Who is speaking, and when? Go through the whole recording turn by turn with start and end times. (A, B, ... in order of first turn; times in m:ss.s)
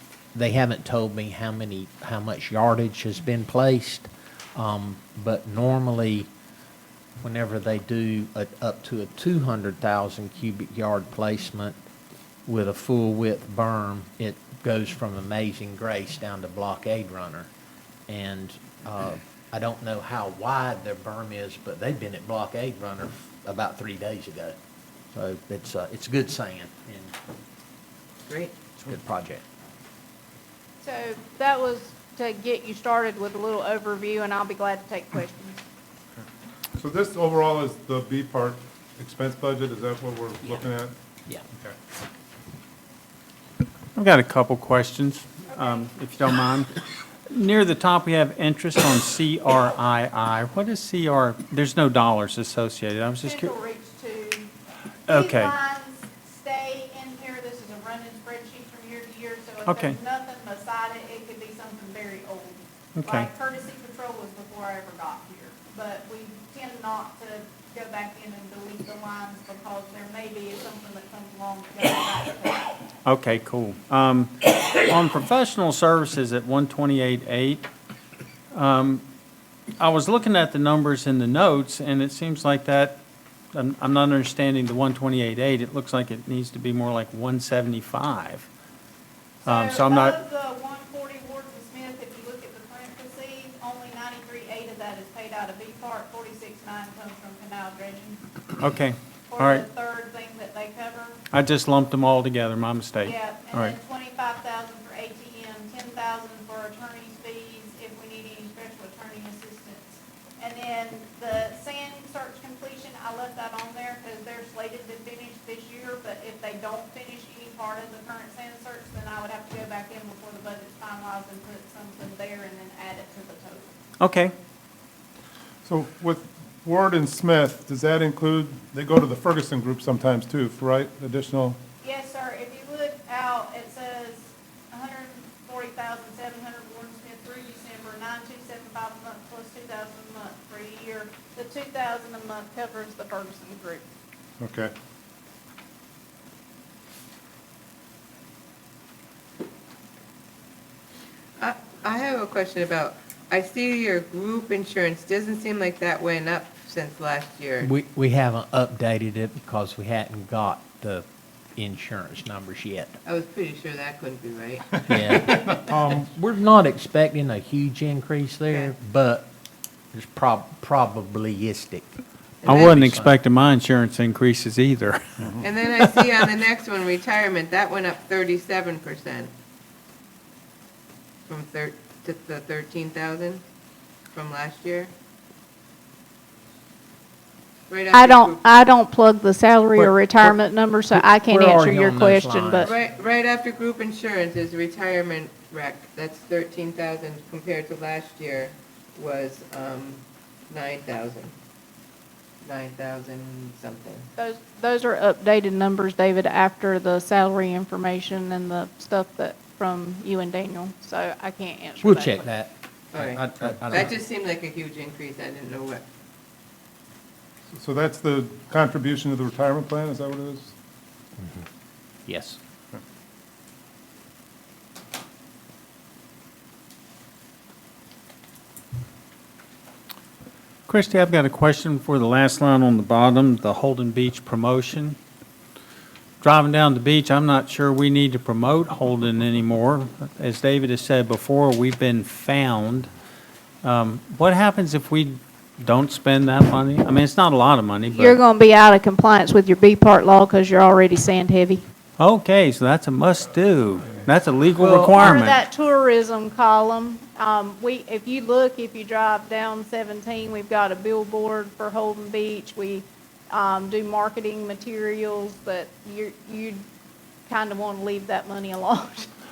0:00.3-0:06.3 A
0:07.2-0:11.8 A
0:12.5-0:17.5 A
0:18.1-0:24.6 A
0:25.1-0:27.1 A
0:28.3-0:28.5 B
0:28.8-0:29.4 A
0:30.8-0:35.6 C
0:36.8-0:40.9 D
0:43.9-0:46.7 E
0:45.5-0:45.8 C
0:47.3-0:53.5 E
0:53.3-0:54.5 C
0:55.1-0:55.5 E
0:55.1-1:12.7 C
0:59.6-1:00.0 E
1:03.0-1:03.3 E
1:13.0-1:17.6 E
1:18.5-1:19.0 E
1:19.8-1:23.0 E
1:23.5-1:28.5 E
1:29.4-1:30.2 E
1:29.4-1:38.2 C
1:38.6-1:39.6 E
1:39.3-1:41.2 C
1:41.3-1:43.8 E
1:43.1-2:03.7 C
2:04.0-2:04.3 E
2:05.6-2:11.6 D
2:11.8-2:23.8 C
2:24.4-2:24.7 D
2:31.4-2:37.7 B
2:37.6-2:41.0 A
2:41.6-2:42.9 A
2:43.0-2:45.2 B
2:44.9-2:49.3 A
2:45.5-2:46.0 D
2:49.9-2:53.1 A
2:52.4-2:52.9 B
2:52.4-2:55.3 E
2:55.2-2:55.4 D
2:55.4-2:59.3 B
3:01.3-3:03.4 B
3:04.1-3:04.9 B
3:07.7-3:08.4 B
3:07.9-3:12.7 C
3:09.7-3:12.7 A
3:12.6-3:21.3 B
3:22.4-3:24.1 B
3:24.2-3:32.2 C
3:31.8-3:33.9 A
3:32.9-3:35.8 B
3:37.5-3:40.5 D
3:41.2-3:41.4 A
3:42.0-3:42.4 A
3:50.7-3:55.0 E
3:56.2-4:02.9 E
4:03.6-4:08.2 E
4:08.0-4:11.6 C
4:12.0-4:15.4 E
4:14.6-4:14.9 A
4:15.0-4:26.6 C
4:27.3-4:29.1 C